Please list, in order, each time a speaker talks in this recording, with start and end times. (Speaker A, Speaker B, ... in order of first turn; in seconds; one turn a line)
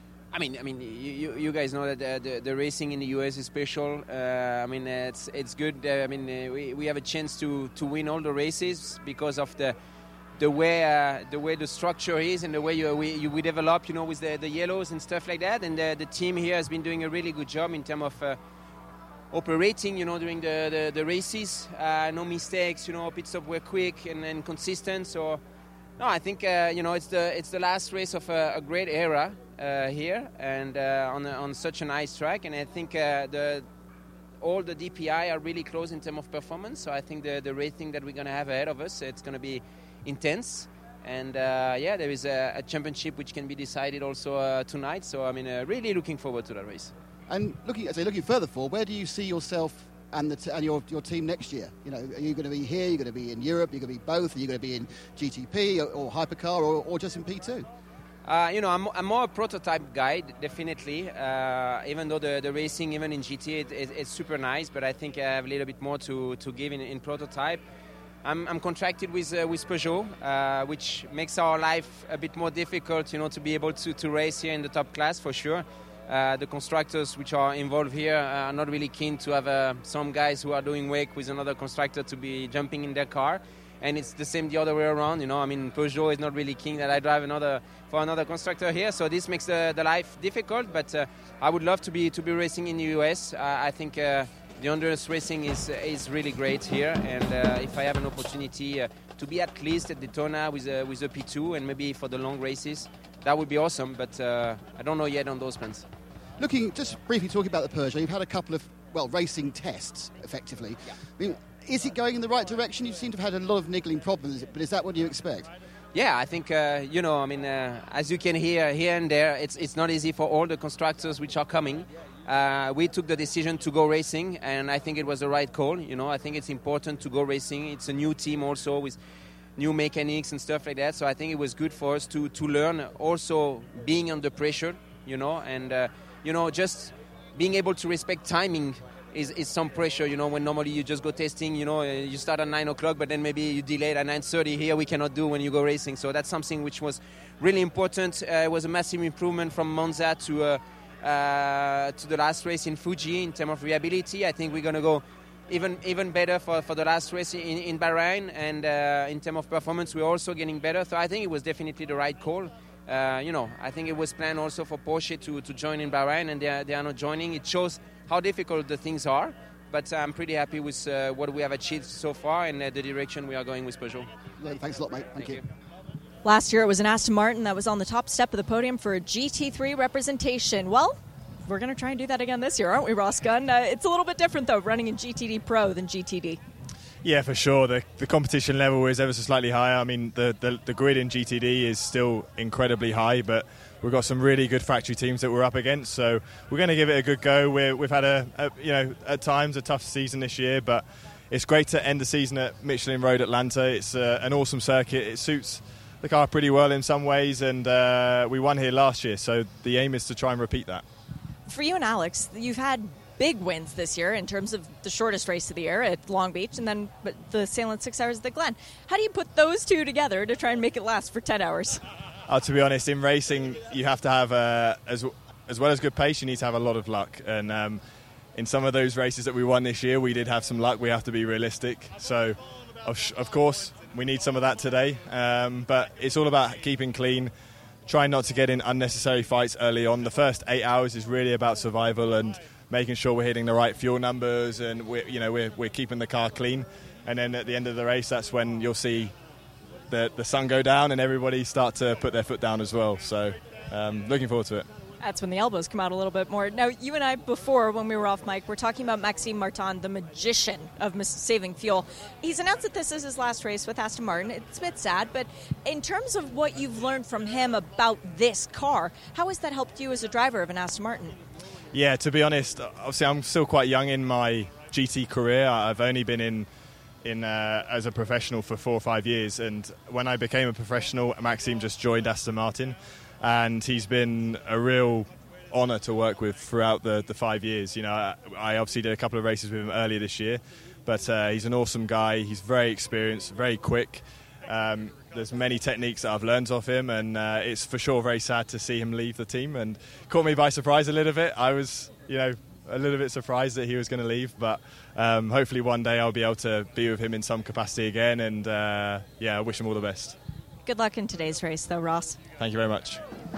Speaker A: 0.3-9.8
Speaker A: 10.4-18.4
Speaker A: 19.3-25.4
Speaker A: 26.0-33.7
Speaker A: 34.4-46.9
Speaker B: 47.3-57.7
Speaker A: 58.2-67.6
Speaker A: 68.2-105.8
Speaker B: 106.4-115.5
Speaker A: 115.9-129.0
Speaker A: 129.6-174.1
Speaker B: 174.4-175.4
Speaker A: 175.2-175.4
Speaker C: 176.2-186.4
Speaker D: 187.0-210.8
Speaker C: 211.5-221.8
Speaker D: 222.3-227.8
Speaker D: 228.3-237.3
Speaker D: 237.9-249.2
Speaker D: 249.9-254.7
Speaker C: 255.0-271.2
Speaker D: 271.7-276.5
Speaker D: 277.0-310.1
Speaker C: 310.6-312.2
Speaker D: 312.4-313.0